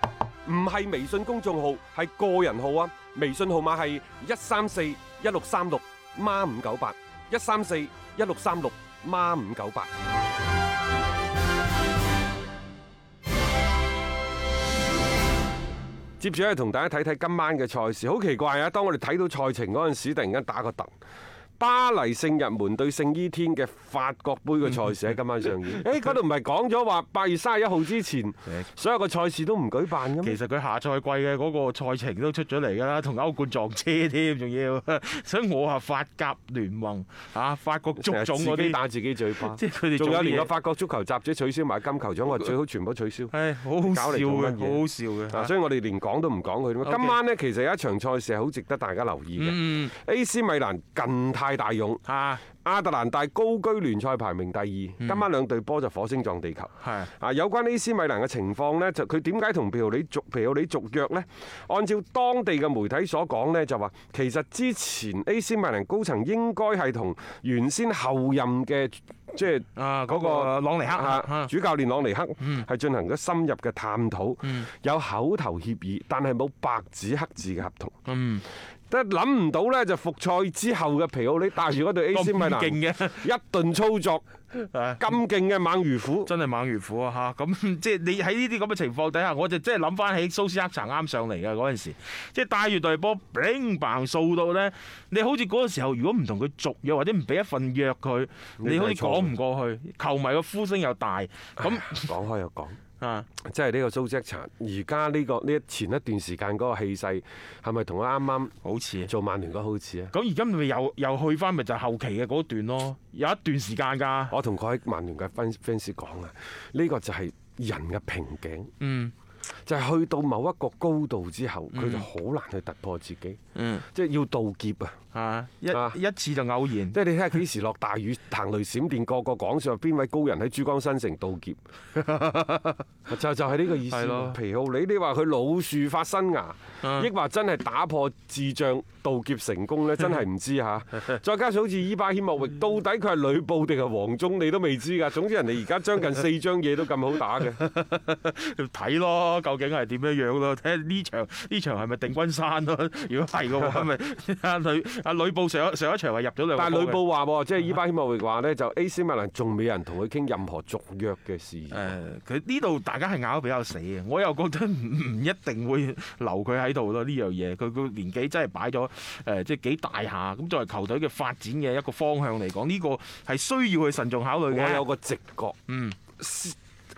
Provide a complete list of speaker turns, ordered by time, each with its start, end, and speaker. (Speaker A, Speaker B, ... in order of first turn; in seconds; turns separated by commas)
Speaker A: 0.5-9.9, Speaker A: 16.2-20.9, Speaker A: 21.6-30.4, Speaker B: 30.2-38.8, Speaker A: 38.0-43.3, Speaker B: 39.4-40.5, Speaker B: 43.3-45.5, Speaker A: 43.8-78.0, Speaker B: 46.8-47.2, Speaker B: 49.4-49.9, Speaker B: 52.1-52.4, Speaker B: 56.8-57.1, Speaker B: 69.8-71.5, Speaker B: 78.1-78.5, Speaker A: 78.9-84.3, Speaker B: 82.1-83.3, Speaker B: 84.5-85.1, Speaker A: 85.0-86.3, Speaker B: 86.3-102.1, Speaker A: 98.6-99.3, Speaker A: 101.6-102.8, Speaker B: 103.0-103.3, Speaker A: 103.4-108.5, Speaker B: 108.6-109.1, Speaker A: 109.1-110.1, Speaker B: 110.1-114.3, Speaker A: 114.3-118.7, Speaker B: 118.8-119.1, Speaker A: 119.7-125.0, Speaker B: 121.7-122.1, Speaker B: 123.6-123.9, Speaker B: 125.1-127.0, Speaker A: 126.9-131.6, Speaker B: 132.0-132.8, Speaker A: 133.1-147.6, Speaker B: 133.9-134.4, Speaker B: 147.6-157.0, Speaker A: 156.6-161.9, Speaker B: 161.7-174.8, Speaker A: 174.5-175.6, Speaker B: 175.7-176.0, Speaker A: 176.2-176.6